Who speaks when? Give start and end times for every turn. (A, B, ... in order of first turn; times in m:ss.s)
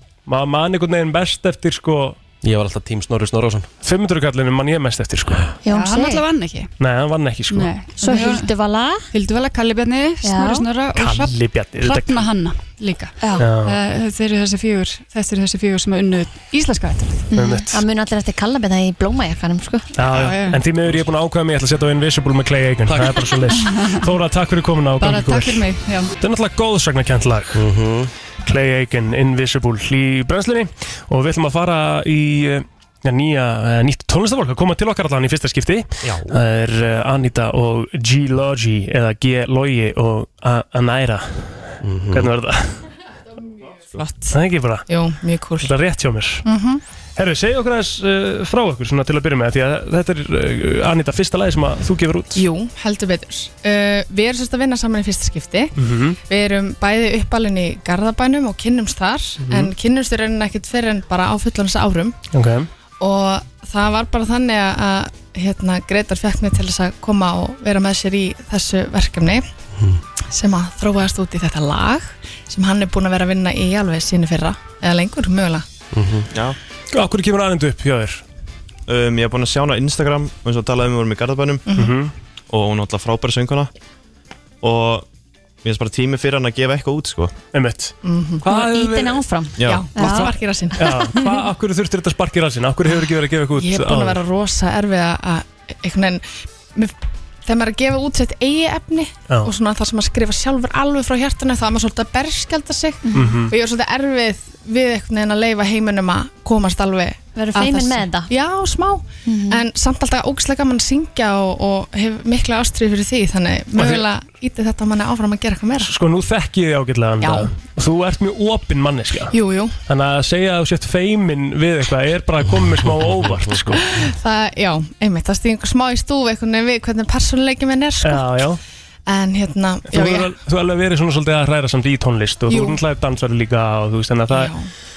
0:00.3-0:02.2 A
0:02.4-0:03.7 B
0:03.8-0:05.5 A
0:05.6-0:06.2 C
0:05.7-0:06.7 D
0:06.8-0:07.7 A
0:07.5-0:08.5 D
0:08.0-0:09.0 C
0:09.1-0:17.3 D
0:10.2-0:10.6 C
0:10.9-0:12.3 A
0:13.4-0:13.8 A
0:17.3-0:19.9 C
0:17.3-0:17.8 A
0:20.0-0:27.6 A
0:20.1-0:20.6 D
0:22.9-0:23.1 B
0:23.6-0:24.0 D
0:25.0-0:26.1 D
0:27.5-0:28.1 B
0:28.4-0:42.8 A
0:36.0-0:36.4 B
0:41.8-0:42.3 B
0:44.0-0:44.3 E
0:44.3-0:44.9 A
0:44.9-0:45.7 E
0:45.6-0:46.4 A
0:46.4-0:46.8 E
0:47.2-0:52.4 A
0:52.3-0:55.7 E
0:55.8-0:56.2 A
0:56.3-1:02.2 E
0:59.4-0:59.7 A
1:02.3-1:02.7 A
1:03.0-1:09.4 E
1:10.3-1:15.6 E
1:15.9-1:16.3 B
1:16.9-1:18.2 A
1:18.9-1:21.6 F
1:21.7-1:21.9 E
1:21.7-1:22.1 A
1:22.5-1:23.7 F
1:24.6-1:25.1 F
1:25.6-1:27.3 F
1:27.5-1:29.2 A
1:28.0-1:28.4 E
1:28.4-1:31.4 C
1:29.6-1:29.9 F
1:29.6-1:30.8 E
1:30.0-1:34.2 A
1:33.6-1:36.9 E
1:37.4-1:55.9 E
1:43.1-1:43.4 C
1:43.1-1:43.5 A
1:47.4-1:48.3 C
1:49.2-1:49.6 C
1:53.8-1:54.0 A
1:55.8-1:59.4 A
1:59.3-1:59.7 E
1:59.9-2:03.8 A
2:03.8-2:08.5 E
2:08.0-2:08.6 A
2:09.1-2:10.3 E
2:09.9-2:14.5 A
2:12.5-2:12.8 E
2:14.3-2:14.7 E